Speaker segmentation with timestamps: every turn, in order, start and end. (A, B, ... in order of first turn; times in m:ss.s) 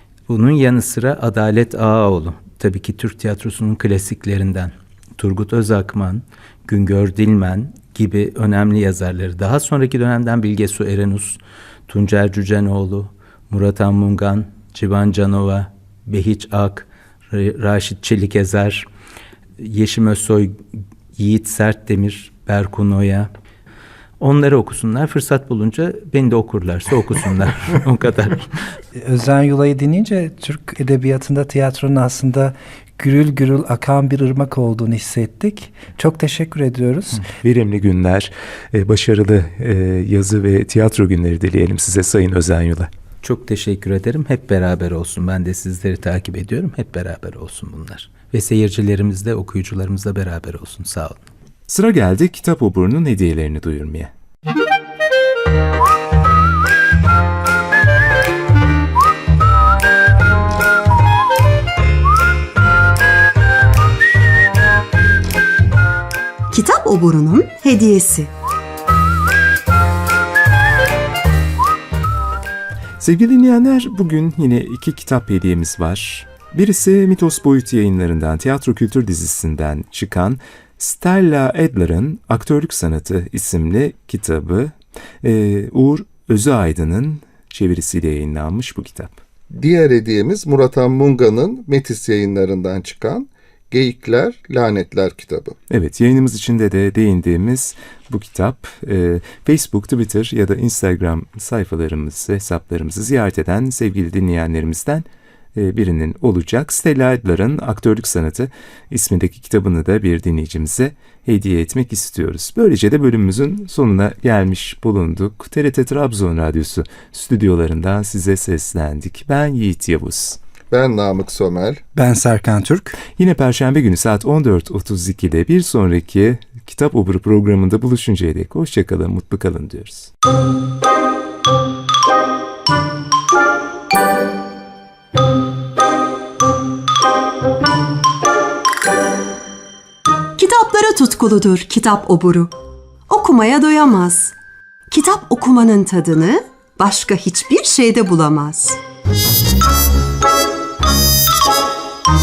0:00.3-0:18.8 A
0:19.6-0:20.6 A
0:21.2-0:23.3 A
0:24.2-0:28.5 A
0:28.9-0:37.3 B
0:37.4-0:42.9 C
0:43.2-0:51.2 A
0:51.7-0:54.1 C
1:06.5-1:08.3 D
1:13.0-1:29.1 C
1:29.5-1:35.6 E
1:35.7-2:00.4 C
2:00.7-2:01.8 E
2:01.9-2:03.0 B
2:03.2-2:10.1 C
2:20.4-2:22.5 D
2:23.1-2:24.3 D
2:24.9-2:28.8 D